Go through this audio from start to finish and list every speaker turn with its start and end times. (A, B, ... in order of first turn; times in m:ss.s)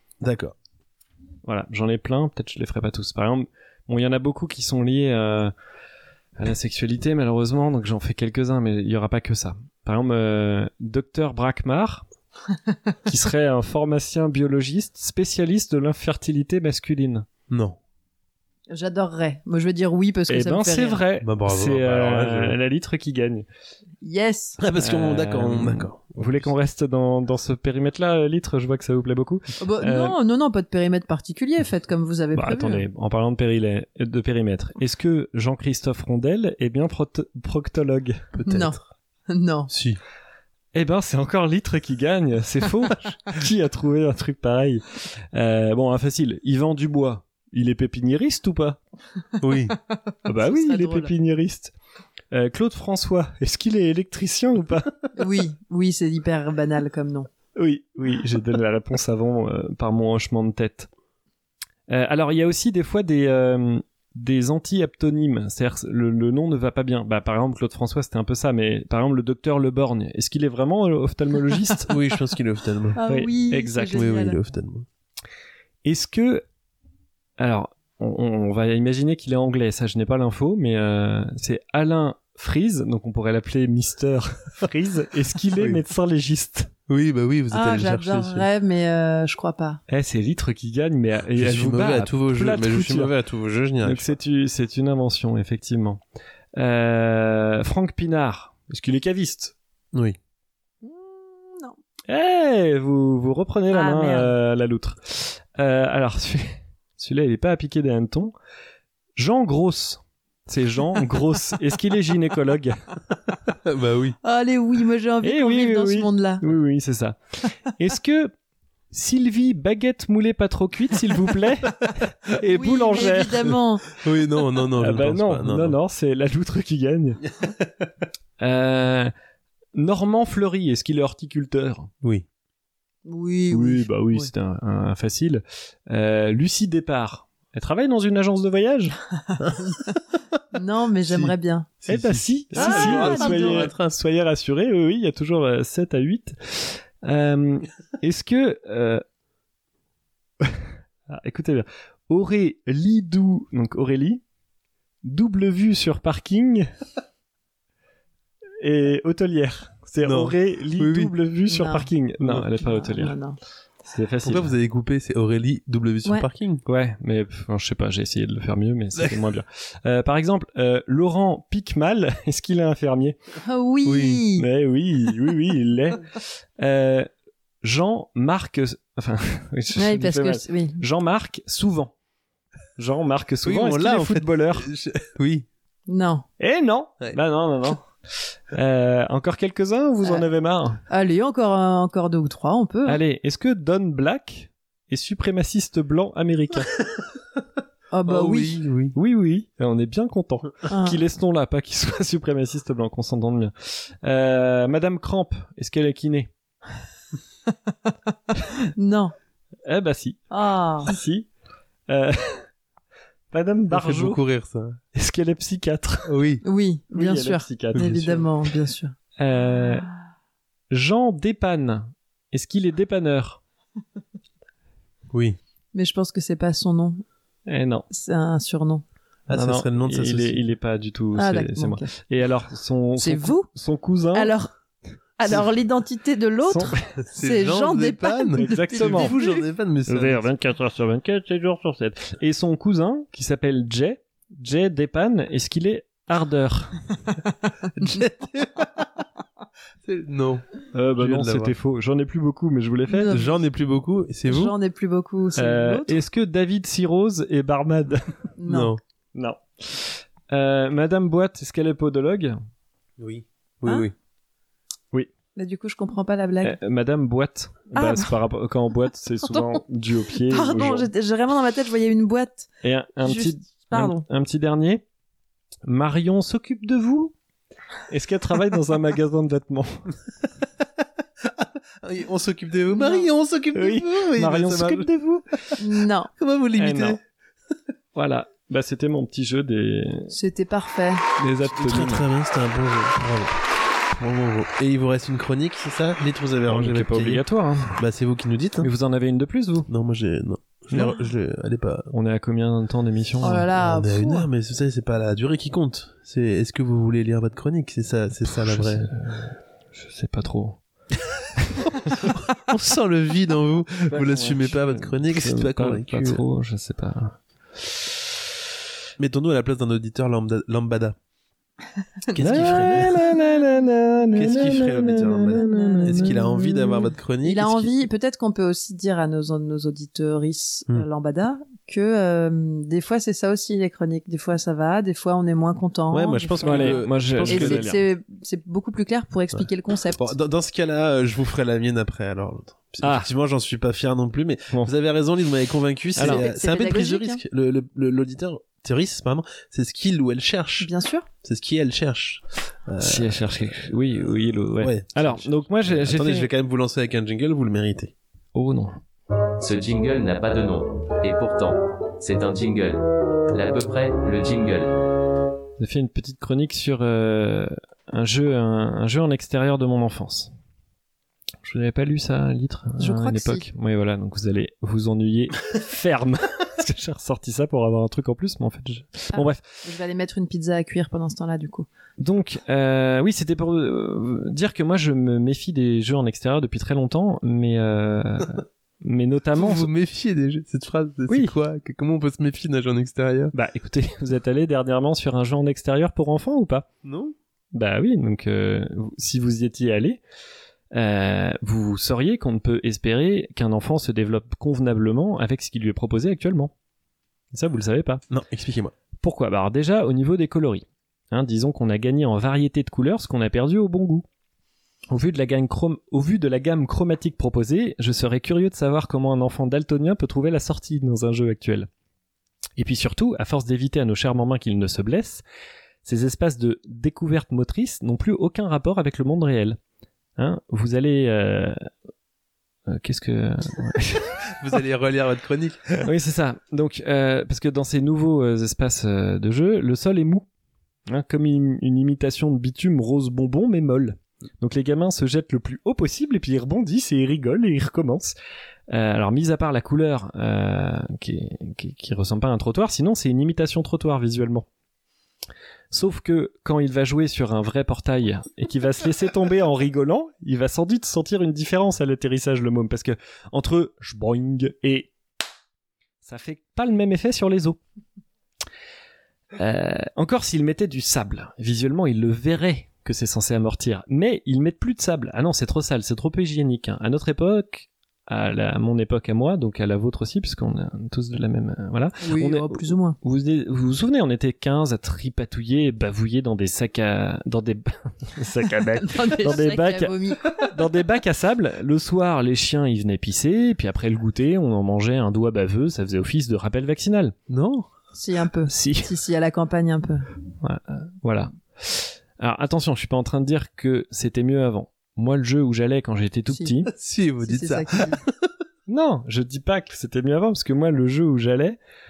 0:00.2-0:00.6 A
0:01.4-0:05.5 B
0:06.4-0:12.0 B
0:13.1-0:17.3 B
0:17.5-0:17.8 A
0:18.7-0:21.0 C
0:20.3-0:23.5 B
0:21.2-0:22.6 A
0:24.0-0:24.6 C
0:24.6-0:26.5 A
0:24.8-0:30.2 B
0:29.6-0:32.9 C
0:32.3-0:38.2 B
0:38.3-0:38.8 A
0:38.4-0:38.8 C
0:39.3-0:39.7 C
0:39.7-0:40.0 A
0:40.7-0:48.8 B
0:49.4-0:49.8 A
0:50.2-0:51.7 B
0:50.3-0:51.1 C
0:52.3-0:54.9 B
0:55.2-0:57.3 C
0:57.6-1:00.9 B
1:01.9-1:12.0 B
1:11.9-1:13.0 A
1:13.0-1:14.4 C
1:13.1-1:14.0 B
1:13.9-1:14.9 A
1:15.8-1:16.4 B
1:17.4-1:26.7 B
1:26.9-1:28.5 A
1:27.5-1:29.8 C
1:29.9-1:33.1 B
1:31.4-1:34.2 A
1:33.8-1:36.0 B
1:36.6-1:39.5 B
1:40.8-1:41.8 C
1:42.1-1:48.3 B
1:43.7-1:44.3 C
1:49.2-1:52.8 B
1:53.5-1:54.2 A
1:54.2-1:56.4 C
1:55.2-1:57.2 B
1:57.8-1:58.3 B
1:58.9-2:03.6 B
2:02.4-2:04.0 C
2:04.0-2:05.8 A
2:04.8-2:07.2 B
2:08.4-2:09.1 B
2:09.7-2:11.9 B
2:13.0-2:14.3 C
2:13.5-2:19.0 B
2:19.4-2:20.0 A
2:20.5-2:21.7 C
2:21.1-2:21.3 A
2:21.8-2:24.0 A
2:21.9-2:29.0 B
2:22.6-2:23.7 C
2:30.4-2:34.2 B
2:35.0-2:36.7 B
2:38.6-2:43.2 B
2:40.0-2:41.1 A
2:41.5-2:41.9 C
2:42.6-2:43.4 C
2:43.9-2:44.5 B
2:44.2-2:46.6 A
2:46.7-2:53.2 B
2:53.4-2:54.5 C
2:53.8-2:54.2 A
2:54.4-2:57.1 B
2:57.6-3:01.9 B
2:59.8-3:00.8 C
3:02.8-3:04.7 B
3:03.4-3:05.4 A
3:05.9-3:06.2 C
3:06.4-3:07.9 B
3:08.5-3:10.8 B
3:10.9-3:13.0 C
3:12.9-3:16.7 B
3:17.9-3:18.6 C
3:18.1-3:19.0 A
3:19.0-3:26.3 B
3:20.7-3:21.0 C
3:28.5-3:29.1 C
3:29.6-3:30.3 B
3:30.3-3:30.9 C
3:30.8-3:31.3 B
3:31.9-3:32.4 B
3:33.3-3:34.2 B
3:33.7-3:34.8 A
3:34.9-3:36.1 B
3:36.1-3:36.4 A
3:36.4-3:39.0 C
3:36.9-3:38.3 B
3:37.8-3:38.1 A
3:39.2-3:39.9 B
3:40.7-3:43.4 B
3:45.1-3:45.4 A
3:45.7-3:47.0 C
3:47.4-3:47.9 B
3:47.9-3:48.8 C
3:49.3-3:50.4 A
3:49.3-3:54.3 B
3:51.2-3:51.9 C
3:53.0-3:53.5 C
3:54.1-3:54.5 C
3:55.2-3:59.4 C
3:56.4-3:56.8 B
3:57.0-4:00.3 A
3:58.4-3:59.1 B
3:59.9-4:06.8 B
4:07.8-4:08.9 A
4:09.8-4:10.4 A
4:10.7-4:13.1 B
4:11.0-4:11.5 A
4:12.9-4:13.4 C
4:13.1-4:14.5 A
4:14.3-4:16.0 C
4:15.4-4:18.1 B
4:18.4-4:18.7 C
4:18.4-4:18.8 A
4:19.1-4:22.4 B
4:23.0-4:23.9 A
4:25.4-4:26.6 C
4:26.4-4:30.9 B
4:27.7-4:28.1 C
4:29.3-4:29.6 C
4:30.3-4:32.5 C
4:32.6-4:34.8 B
4:33.0-4:34.0 C
4:35.6-4:37.1 B
4:37.9-4:39.9 B
4:41.4-4:44.9 A
4:42.7-4:43.1 C
4:43.6-4:45.3 B
4:45.6-4:46.1 C
4:46.2-4:47.0 A
4:46.6-4:47.0 B
4:47.9-4:50.1 B
4:50.1-4:51.0 C
4:51.2-4:52.0 B
4:51.4-4:53.4 A
4:54.0-4:57.2 A
4:56.5-4:57.8 B
4:57.8-4:58.7 A
4:58.6-4:59.7 B
4:59.7-5:01.9 A
5:01.9-5:03.5 B
5:03.2-5:04.3 C
5:03.6-5:08.9 A
5:08.2-5:10.6 B
5:11.4-5:12.1 B
5:12.0-5:16.2 A
5:13.9-5:17.2 B
5:19.0-5:21.0 A
5:22.1-5:23.0 A
5:22.2-5:26.5 B
5:24.1-5:27.7 A
5:25.3-5:26.6 C
5:27.2-5:40.1 C
5:35.9-5:37.6 A
5:36.4-5:37.8 B
5:40.0-5:50.7 A
5:42.8-5:43.1 B
5:46.0-5:46.2 B
5:46.0-5:47.2 C
5:50.6-5:51.1 C
5:51.2-5:53.3 A
5:52.8-5:56.3 B
5:54.6-5:57.9 A
5:58.3-5:58.8 B
5:59.4-6:04.8 D
6:05.6-6:10.3 B
6:11.4-6:19.4 B
6:12.8-6:13.4 C
6:19.1-6:21.7 C
6:22.0-6:29.7 B
6:29.4-6:33.3 A
6:31.1-6:31.3 B
6:33.3-6:36.7 B
6:36.8-6:37.1 A
6:37.5-6:40.0 B
6:40.7-6:46.5 B
6:47.3-6:48.0 B
6:48.1-6:48.7 A
6:49.0-6:54.1 B
6:54.9-7:01.7 B
7:02.6-7:05.2 B
7:05.8-7:09.6 B
7:10.2-7:11.7 B
7:12.7-7:14.2 B
7:14.4-7:15.8 A
7:15.8-7:20.3 B
7:20.9-7:28.1 B
7:28.7-7:34.5 B
7:35.7-7:44.9 B
7:46.0-7:47.6 B
7:49.4-8:17.1 B
8:02.0-8:03.0 C
8:08.8-8:10.5 C
8:17.3-8:17.7 A
8:17.9-8:20.1 C
8:18.5-8:18.9 B
8:20.4-8:26.7 B
8:26.7-8:28.0 A
8:27.2-8:28.0 C
8:28.7-8:31.6 B